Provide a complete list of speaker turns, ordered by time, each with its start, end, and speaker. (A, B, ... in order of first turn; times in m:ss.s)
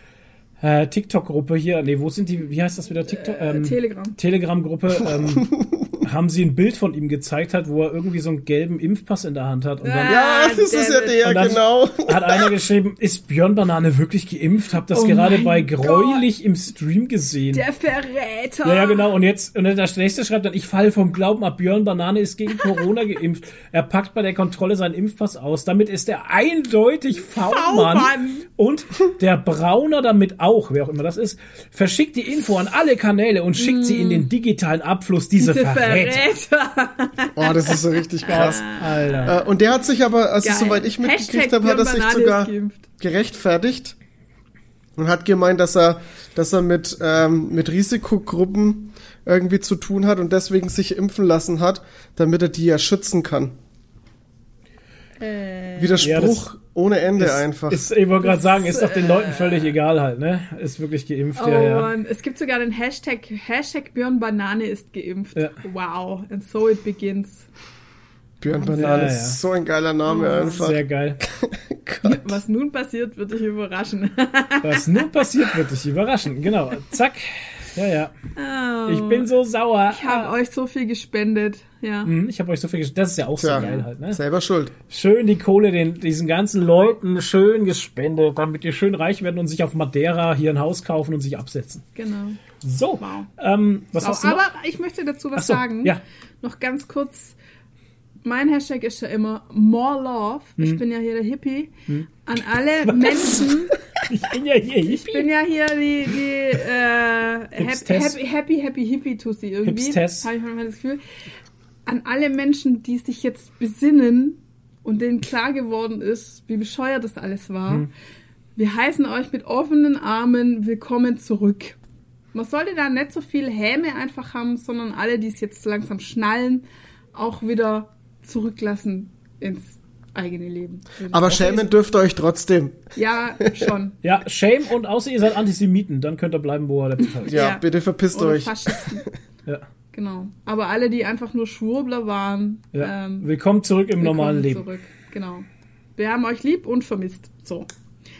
0:00.6-0:05.5 A
0:03.1-0:04.2 B
0:05.2-0:06.0 C
0:06.0-0:10.2 A
0:09.8-0:11.5 B
0:10.1-0:12.5 C
0:11.2-0:17.6 A
0:14.9-0:16.2 B
0:17.5-0:19.1 B
0:18.6-0:36.2 A
0:27.2-0:28.5 B
0:33.6-0:34.3 B
0:35.4-0:39.4 B
0:37.3-0:44.0 C
0:38.3-0:39.3 A
0:40.4-0:42.9 B
0:45.0-0:53.5 C
0:55.2-0:56.0 B
0:55.8-0:57.8 C
0:56.0-0:56.4 A
0:57.2-1:01.9 A
0:58.2-0:59.8 B
1:01.4-1:07.5 B
1:08.4-1:12.4 C
1:08.5-1:09.1 B
1:08.8-1:09.4 A
1:10.1-1:10.6 B
1:10.4-1:11.2 A
1:12.0-1:15.0 B
1:14.6-1:18.1 A
1:18.4-1:19.3 B
1:18.8-1:20.3 A
1:19.9-1:22.1 B
1:22.0-1:24.2 A
1:23.4-1:24.7 C
1:23.5-1:23.8 B
1:24.9-1:31.8 A
1:32.0-1:32.4 B
1:32.6-1:34.4 A
1:33.0-1:33.3 B
1:34.0-1:37.3 B
1:35.4-1:36.0 A
1:38.2-1:41.7 B
1:42.2-1:43.8 B
1:42.8-1:45.3 A
1:44.9-1:51.0 B
1:47.6-1:48.2 A
1:49.6-1:50.3 A
1:51.8-1:57.9 B
1:58.6-2:01.8 B
2:02.3-2:11.7 B
2:11.1-2:12.8 C
2:13.0-2:14.0 B
2:14.0-2:17.4 A
2:17.2-2:19.1 C
2:17.3-2:19.0 B
2:19.9-2:23.3 B
2:22.7-2:24.6 A
2:24.0-2:27.7 B